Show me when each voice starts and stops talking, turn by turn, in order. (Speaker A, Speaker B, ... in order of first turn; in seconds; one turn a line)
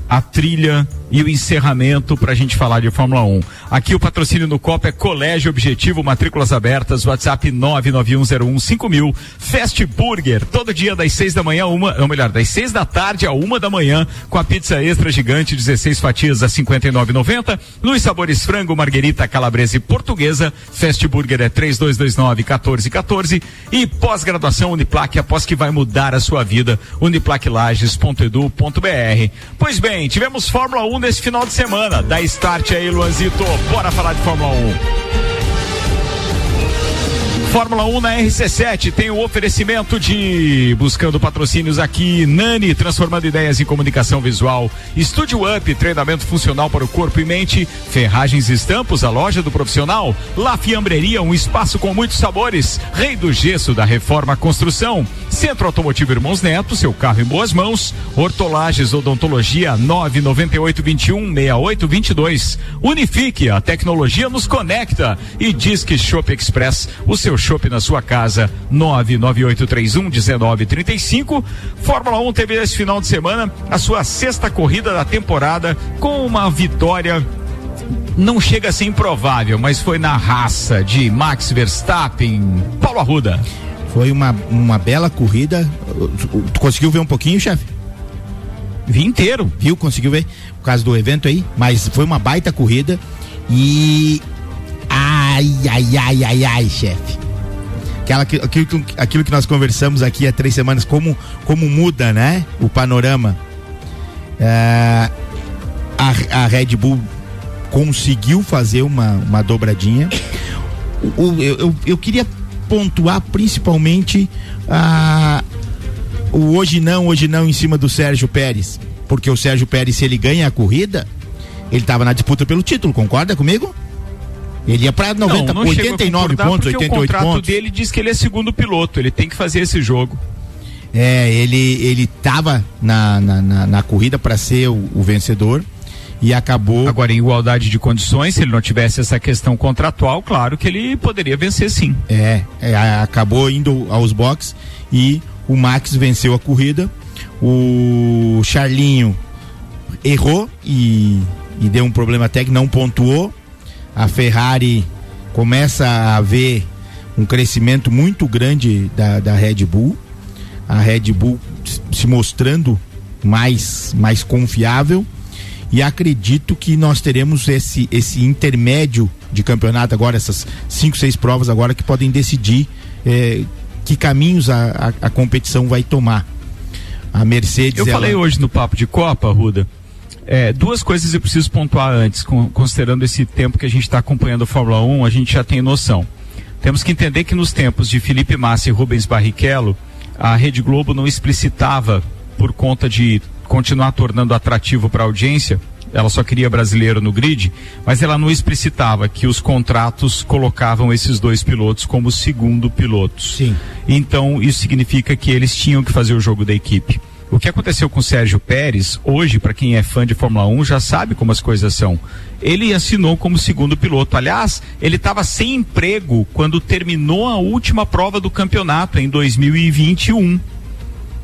Speaker A: 0.1-34.8
Speaker A: 37.5-77.3
Speaker A: 78.2-83.4
Speaker B: 83.9-87.7
Speaker A: 88.9-89.5
Speaker B: 89.6-94.2
Speaker B: 94.9-97.2
Speaker B: 98.1-103.4
Speaker B: 104.4-105.1
Speaker B: 106.0-107.0
Speaker B: 107.7-110.1
Speaker B: 111.0-115.4
Speaker B: 116.3-121.1
Speaker B: 121.7-123.8
Speaker B: 124.7-127.5
Speaker A: 125.2-130.2
Speaker B: 130.9-135.7
Speaker B: 136.2-137.0
Speaker A: 136.8-142.0
Speaker B: 142.1-149.2
Speaker B: 150.0-153.3
Speaker B: 154.0-160.0
Speaker B: 160.7-165.1
Speaker B: 165.7-176.3
Speaker B: 177.1-178.2
Speaker A: 177.8-179.7
Speaker A: 180.3-186.1
Speaker A: 186.6-220.4
Speaker B: 203.3-203.6